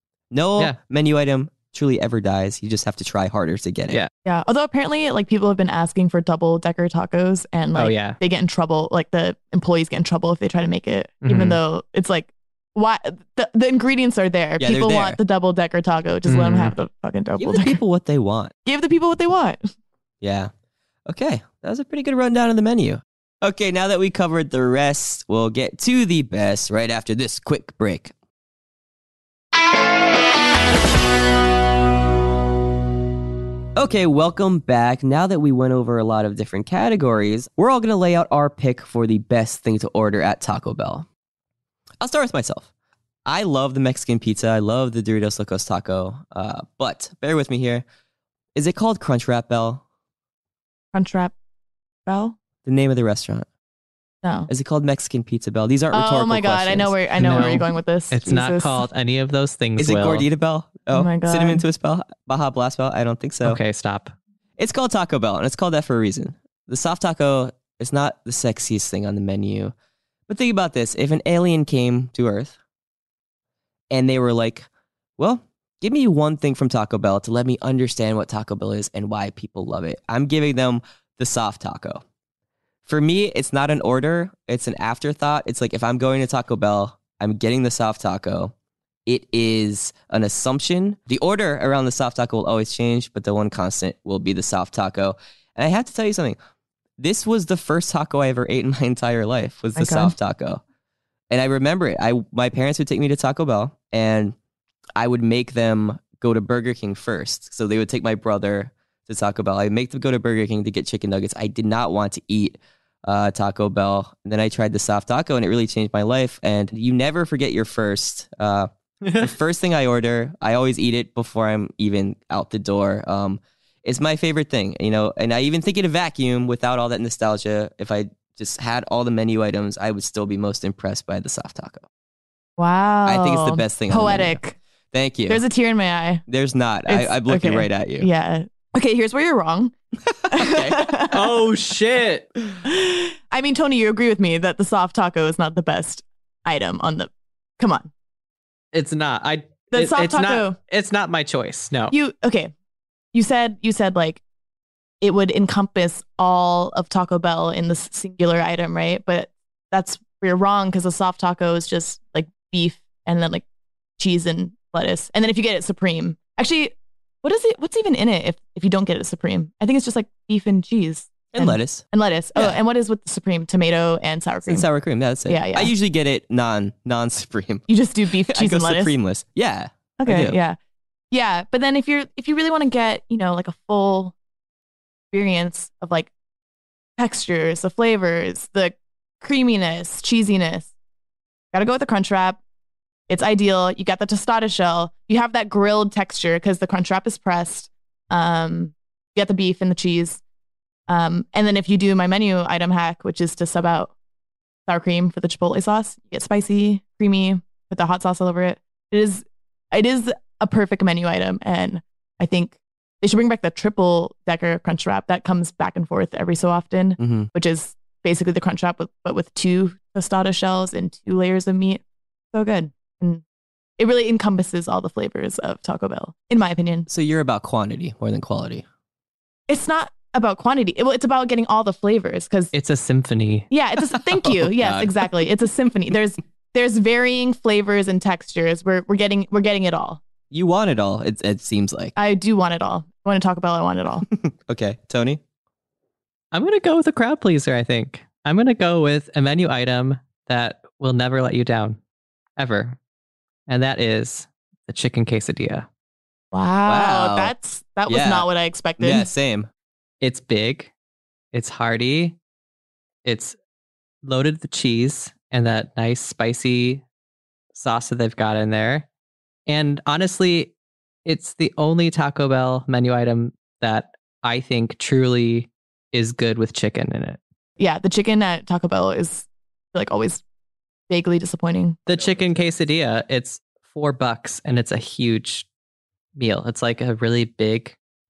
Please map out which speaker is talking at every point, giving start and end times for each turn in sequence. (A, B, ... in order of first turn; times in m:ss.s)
0:00.3-0:04.0 A
0:04.2-0:17.8 B
0:07.7-0:08.2 C
0:11.2-0:11.6 C
0:14.6-0:15.2 A
0:16.3-0:16.7 C
0:17.4-0:18.5 A
0:18.6-0:19.6 B
0:20.2-0:20.5 A
0:21.1-0:28.1 A
0:33.8-0:41.0 A
0:42.0-0:42.7 A
0:43.2-0:47.8 A
0:48.5-0:49.8 A
0:50.9-0:51.3 B
0:52.0-0:52.4 B
0:52.6-0:53.4 A
0:54.2-0:54.5 B
0:54.5-0:57.0 A
0:55.9-0:58.8 B
0:57.2-1:00.2 C
0:59.8-1:03.6 A
1:00.9-1:01.6 B
1:03.4-1:04.1 C
1:04.6-1:09.7 A
1:10.3-1:12.5 A
1:13.9-1:14.7 A
1:15.2-1:22.0 A
1:22.8-1:28.5 A
1:29.0-1:36.4 A
1:37.0-1:40.6 A
1:39.8-1:40.1 B
1:41.3-1:44.3 A
1:45.0-2:11.8 A
2:12.6-2:14.6 B
2:13.0-2:14.4 A
2:14.9-2:15.4 A
2:15.3-2:16.2 B
2:16.3-2:18.1 A
2:16.9-2:19.7 B
2:20.1-2:20.9 A
2:20.3-2:21.4 B
2:21.1-2:22.3 C
2:22.6-2:27.9 B
2:28.7-2:31.9 C
2:29.7-2:30.5 B
2:31.9-2:32.5 B
2:33.1-2:34.2 B
2:35.0-2:43.4 B
2:44.0-2:54.6 B
2:51.3-2:51.8 A
2:54.4-3:00.4 A
2:55.3-2:55.7 B
2:57.7-2:58.9 B
3:00.0-3:00.6 B
3:01.1-3:04.1 B
3:05.1-3:06.1 B
3:07.0-3:10.7 B
3:11.5-3:12.4 B
3:13.1-3:20.2 B
3:20.9-3:23.9 B
3:24.7-3:41.8 B
3:37.0-3:37.3 A
3:42.3-3:43.2 B
3:43.8-3:46.9 B
3:46.9-3:48.6 A
3:49.5-3:52.5 B
3:52.5-3:53.5 C
3:53.5-4:00.0 B
3:54.3-3:55.0 A
4:00.3-4:01.9 A
4:02.0-4:04.0 B
4:04.1-4:05.2 A
4:06.3-4:11.8 C
4:12.4-4:12.8 C
4:13.5-4:15.7 C
4:16.3-4:19.1 B
4:16.6-4:17.3 A
4:17.9-4:18.3 A
4:18.8-4:19.5 A
4:20.0-4:20.7 C
4:21.3-4:22.2 C
4:23.0-4:23.4 C
4:24.0-4:26.8 C
4:27.5-4:28.8 C
4:29.5-4:30.5 C
4:31.0-4:37.2 C
4:37.6-4:40.2 B
4:40.9-4:41.8 B
4:41.9-4:45.4 C
4:46.2-4:47.8 C